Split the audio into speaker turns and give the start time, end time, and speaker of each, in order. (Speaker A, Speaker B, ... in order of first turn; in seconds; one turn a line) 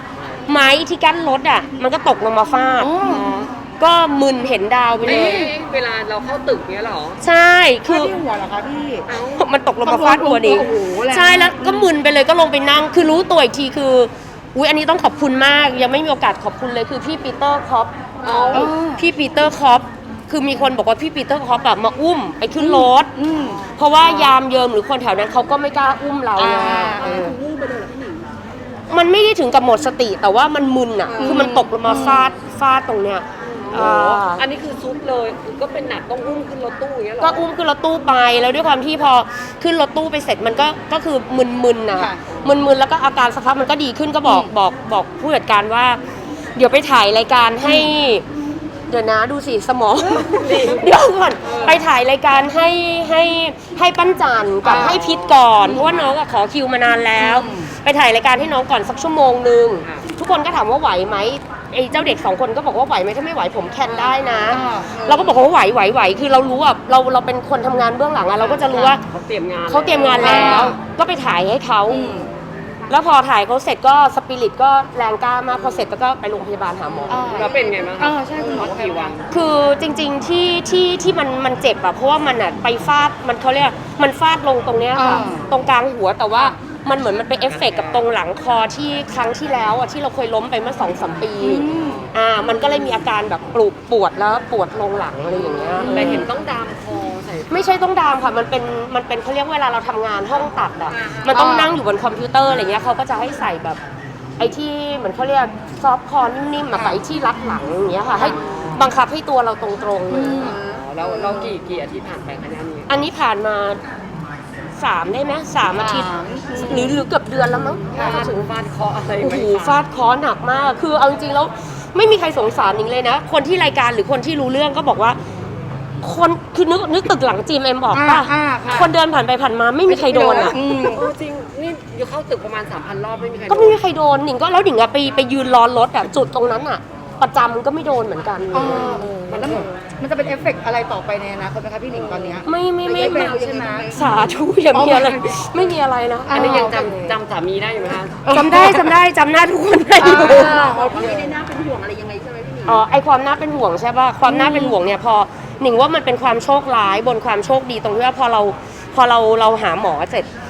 Speaker A: 0.5-2.9
Speaker B: 2.8-3.2
Speaker C: 3.0-3.5
Speaker A: 3.8-5.4
Speaker B: 5.0-5.5
Speaker C: 5.0-7.2
Speaker A: 7.2-8.1
Speaker B: 7.8-9.1
Speaker C: 9.1-9.4
Speaker A: 9.2-23.1
Speaker B: 9.8-11.9
Speaker D: 18.2-18.7
Speaker C: 18.2-18.6
Speaker B: 18.5-19.1
Speaker B: 22.6-23.6
Speaker A: 23.8-27.3
Speaker C: 24.0-24.3
Speaker B: 26.4-27.3
Speaker D: 26.9-28.3
Speaker A: 28.9-34.4
Speaker D: 31.0-31.4
Speaker B: 31.2-32.3
Speaker D: 33.4-33.8
Speaker C: 33.7-37.5
Speaker A: 37.2-46.0
Speaker B: 41.9-42.2
Speaker B: 44.2-44.5
Speaker A: 46.5-48.2
Speaker B: 47.6-47.9
Speaker A: 48.9-69.0
Speaker D: 50.2-50.6
Speaker C: 50.4-50.9
Speaker D: 51.4-51.8
Speaker B: 54.6-55.9
Speaker B: 57.2-57.7
Speaker B: 63.9-65.4
Speaker C: 68.4-70.7
Speaker B: 68.7-69.0
Speaker A: 69.7-72.1
Speaker B: 70.1-70.8
Speaker B: 71.9-72.3
Speaker A: 72.9-77.3
Speaker B: 77.1-79.2
Speaker D: 77.1-78.7
Speaker C: 77.3-79.2
Speaker A: 79.3-96.3
Speaker B: 84.9-85.5
Speaker C: 87.5-88.1
Speaker B: 91.4-92.0
Speaker C: 91.7-92.1
Speaker C: 95.5-97.7
Speaker B: 95.8-96.3
Speaker D: 96.0-96.2
Speaker A: 97.5-103.8
Speaker D: 100.9-101.3
Speaker B: 101.3-101.7
Speaker A: 104.4-110.5
Speaker B: 106.7-107.0
Speaker C: 108.2-108.8
Speaker D: 108.2-108.7
Speaker B: 110.1-110.5
Speaker D: 110.3-111.5
Speaker C: 110.7-112.9
Speaker A: 112.9-113.8
Speaker A: 114.8-118.5
Speaker B: 115.7-117.0
Speaker B: 117.9-118.2
Speaker C: 117.9-119.8
Speaker A: 119.2-125.2
Speaker A: 126.0-130.6
Speaker B: 127.9-128.9
Speaker C: 130.0-133.8
Speaker B: 130.1-131.1
Speaker D: 130.1-130.5
Speaker A: 133.5-139.1
Speaker C: 138.5-139.7
Speaker B: 138.5-144.0
Speaker D: 138.7-139.7
Speaker D: 141.9-144.4
Speaker A: 142.4-143.3
Speaker A: 143.9-146.9
Speaker B: 144.7-145.4
Speaker B: 146.2-147.2
Speaker C: 146.3-148.2
Speaker B: 148.2-148.9
Speaker A: 148.3-150.6
Speaker B: 150.0-151.3
Speaker D: 150.1-152.8
Speaker A: 152.7-160.3
Speaker B: 154.2-154.8